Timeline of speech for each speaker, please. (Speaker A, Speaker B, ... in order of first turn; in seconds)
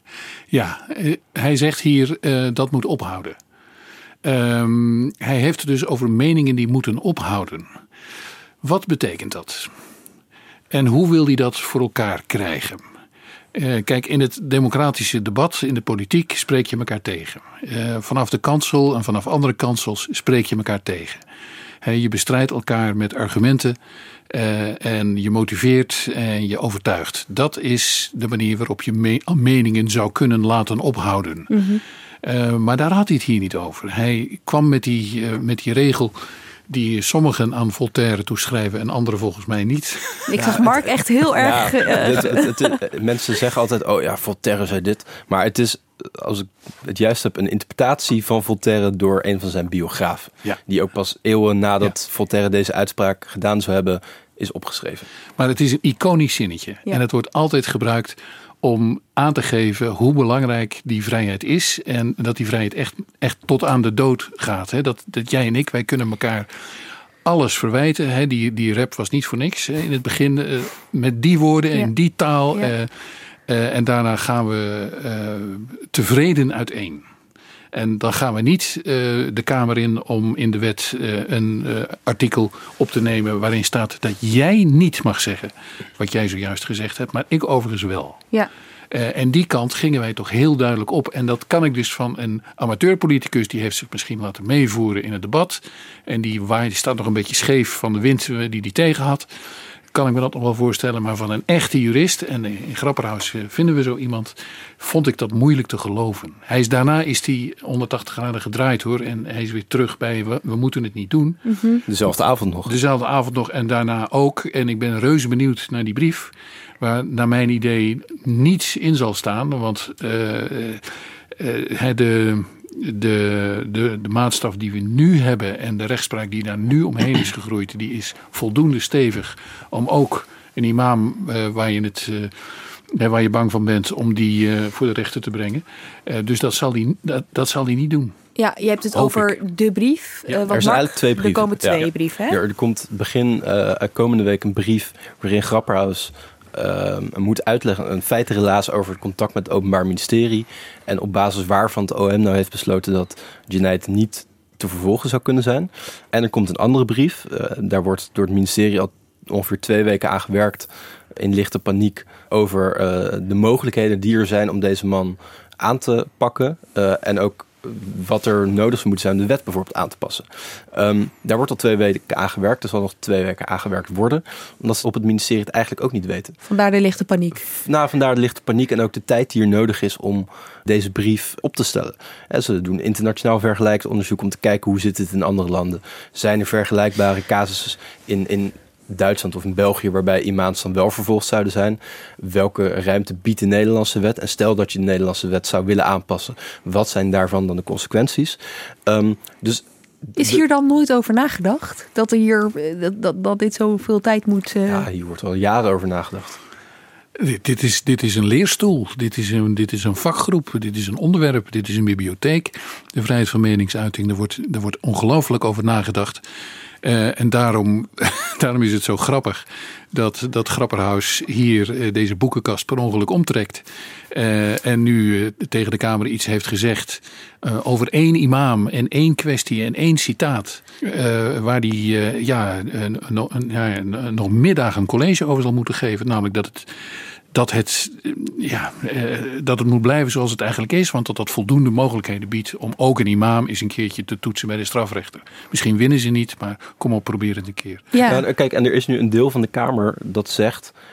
Speaker A: 0.5-3.4, 4.2-7.7, 8.6-9.7, 10.7-12.8, 13.5-21.2, 21.8-23.8, 24.3-31.5, 32.2-36.1, 36.7-40.6, 55.4-66.5, 67.2-72.9, 73.5-77.0, 77.7-88.2, 88.9-99.3, 99.9-111.4, 112.6-132.3, 132.9-138.1, 138.9-139.3, 207.2-216.2, 216.8-236.7, 237.3-247.8
Speaker B: 31.5-31.8, 40.3-42.5, 111.5-111.8, 138.4-142.4, 176.4-177.4, 200.2-204.8, 247.9-248.2
Speaker C: 41.3-55.1, 111.9-112.7, 140.5-176.3, 177.5-200.4, 204.7-206.4, 248.1-250.7